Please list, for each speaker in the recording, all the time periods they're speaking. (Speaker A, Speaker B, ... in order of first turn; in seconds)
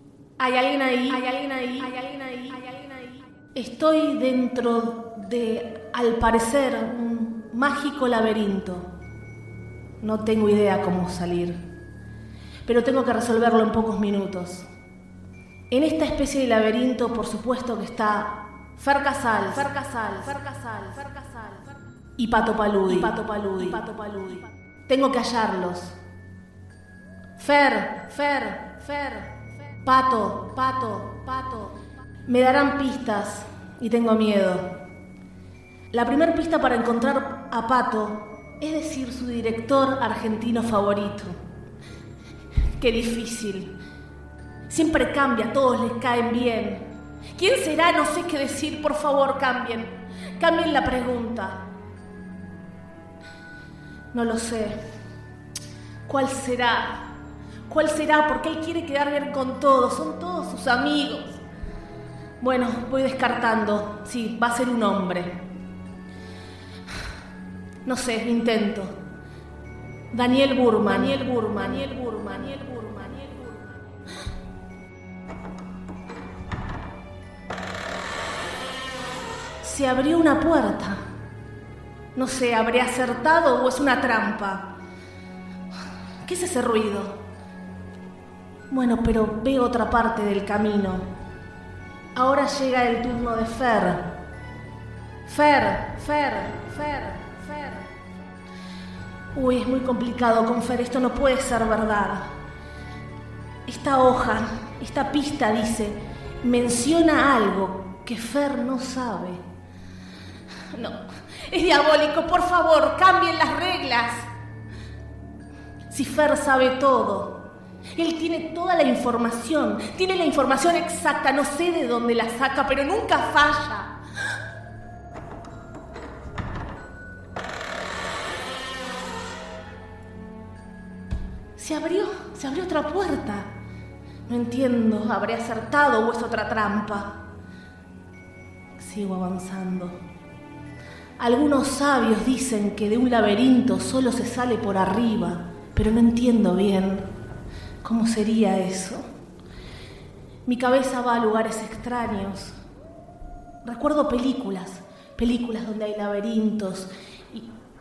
Speaker A: 0.4-8.9, 10.0-11.6, 12.7-14.7, 15.7-21.6, 22.2-25.9, 27.4-34.8, 35.9-41.3, 42.8-43.8, 44.7-51.7, 54.1-54.9, 56.0-57.1, 57.7-61.4, 62.4-65.4, 67.8-68.9, 70.1-73.7, 79.6-81.0, 82.1-84.8, 86.2-87.2, 88.7-91.1, 92.1-94.2, 95.2-97.9, 99.3-102.3, 103.7-109.4, 110.7-114.2, 115.9-123.9, 131.6-133.5, 134.3-137.2, 138.8-140.0, 141.2-147.1, 147.8-149.1, 150.4-152.5, 153.6-157.5